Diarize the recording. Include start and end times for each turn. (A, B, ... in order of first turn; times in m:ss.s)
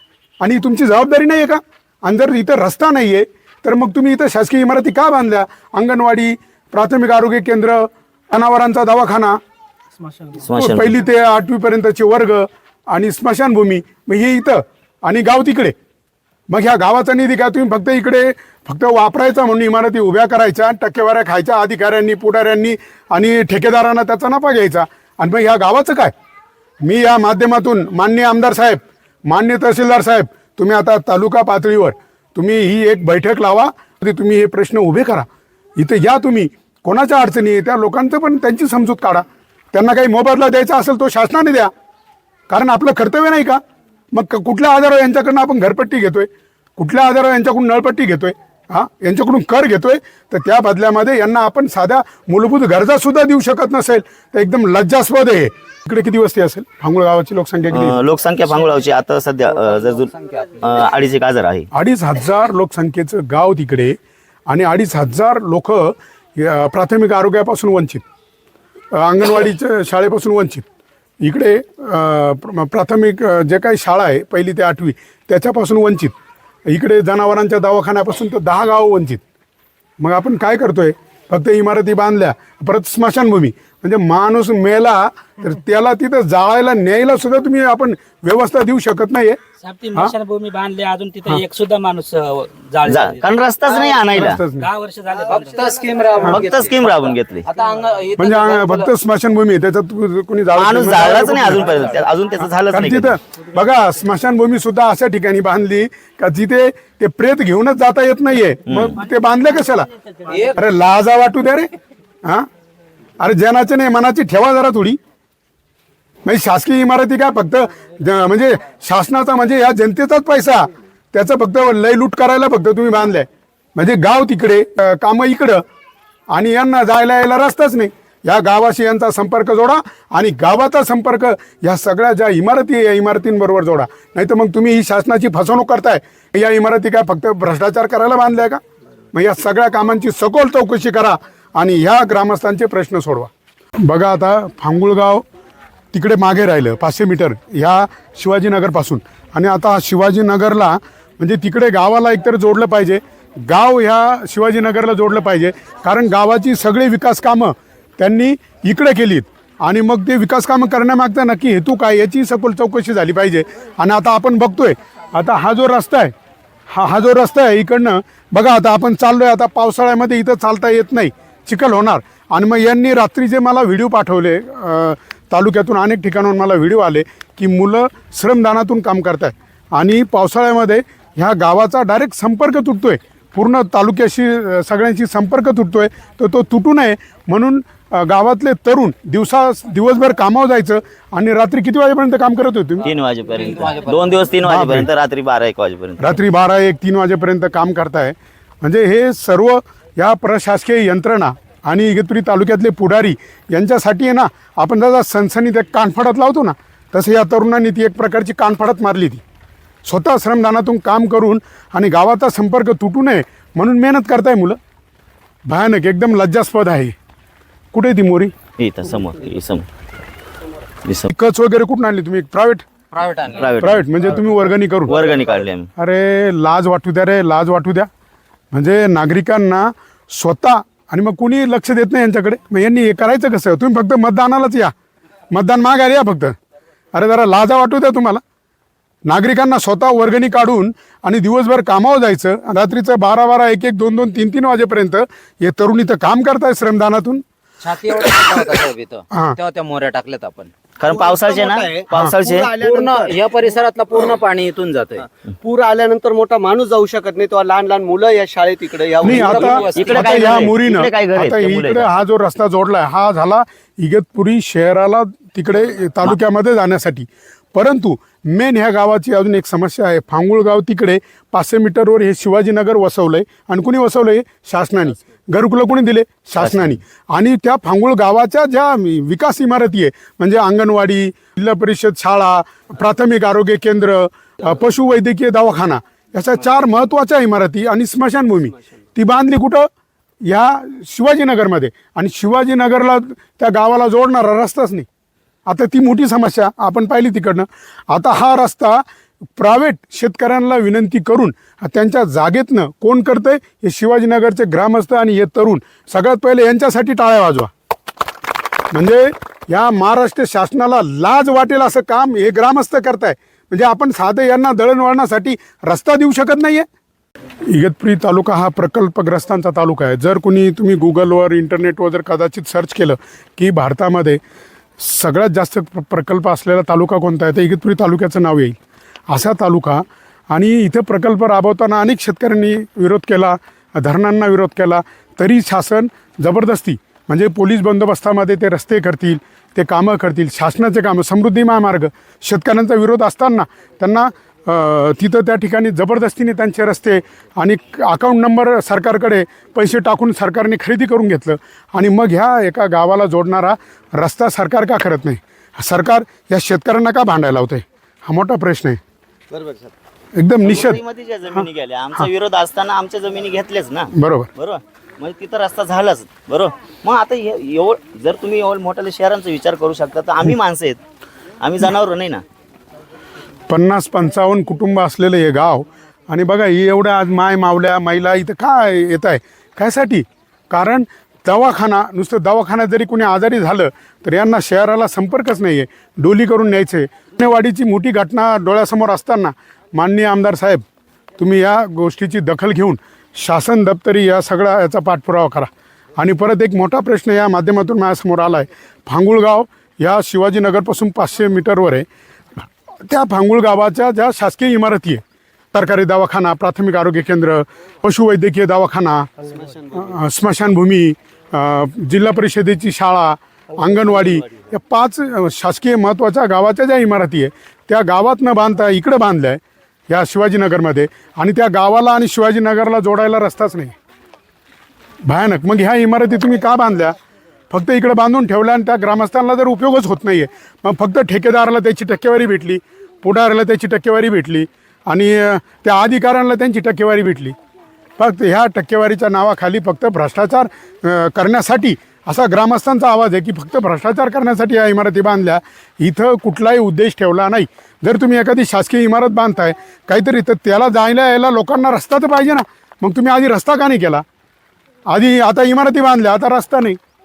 0:00.4-0:09.4 A
0:10.4-0:11.0 B
0:10.5-0:15.7 A
0:16.5-0:26.1 A
0:26.8-0:35.2 A
0:35.8-0:41.7 A
0:42.5-0:43.6 A
0:44.1-0:58.0 A
0:57.7-1:01.7 B
1:00.2-1:00.6 C
1:01.7-1:04.0 A
1:04.5-1:08.0 A
1:08.9-1:10.6 A
1:11.2-1:16.1 A
1:16.7-1:19.2 A
1:20.0-1:29.4 A
1:29.6-1:33.2 D
1:32.8-1:34.4 B
1:33.9-1:36.3 D
1:34.1-1:34.7 A
1:35.2-1:38.9 C
1:36.2-1:37.5 B
1:38.2-1:49.9 A
1:40.5-1:43.2 B
1:48.7-1:49.0 B
1:50.3-1:50.6 C
1:50.5-1:51.7 A
1:53.2-1:55.0 A
1:56.2-2:05.6 A
2:06.3-2:18.6 A
2:19.1-2:23.3 A
2:23.8-2:25.2 A
2:25.9-2:46.1 A
2:46.7-3:12.9 A
3:12.8-3:16.2 B
3:13.3-3:14.3 C
3:14.4-3:14.9 A
3:16.0-3:29.2 A
3:29.8-3:34.6 A
3:35.5-3:36.9 A
3:37.7-3:38.3 A
3:38.6-3:39.6 B
3:40.8-3:41.1 B
3:41.1-3:42.6 A
3:42.9-3:43.5 C
3:43.3-3:43.9 B
3:43.6-3:45.0 A
3:44.9-3:45.7 B
3:45.8-3:47.9 A
3:48.5-3:54.7 A
3:55.3-3:56.3 A
3:56.9-3:58.2 A
3:59.0-4:07.2 A
4:07.6-4:10.5 C
4:09.1-4:09.4 A
4:10.8-4:12.5 B
4:10.9-4:13.2 E
4:12.6-4:15.1 C
4:15.4-4:19.7 E
4:19.0-4:20.3 C
4:19.0-4:49.7 A
4:19.7-4:21.9 B
4:36.4-4:36.8 B
4:50.2-4:54.8 A
4:55.4-4:58.8 A
4:59.4-5:07.5 A
5:08.7-5:16.6 A
5:17.5-5:24.2 A
5:24.8-5:28.6 A
5:29.1-5:58.8 A
6:00.2-6:00.8 A
6:00.4-6:10.8 B
6:03.9-6:04.3 A
6:11.4-6:12.2 B
6:13.5-6:30.6 A
6:31.2-6:41.9 A
6:42.9-6:45.0 A
6:45.5-6:49.1 A
6:49.6-7:03.7 A
7:05.0-7:06.9 A
7:07.5-7:17.4 A
7:18.0-7:34.0 A
7:34.9-7:36.8 A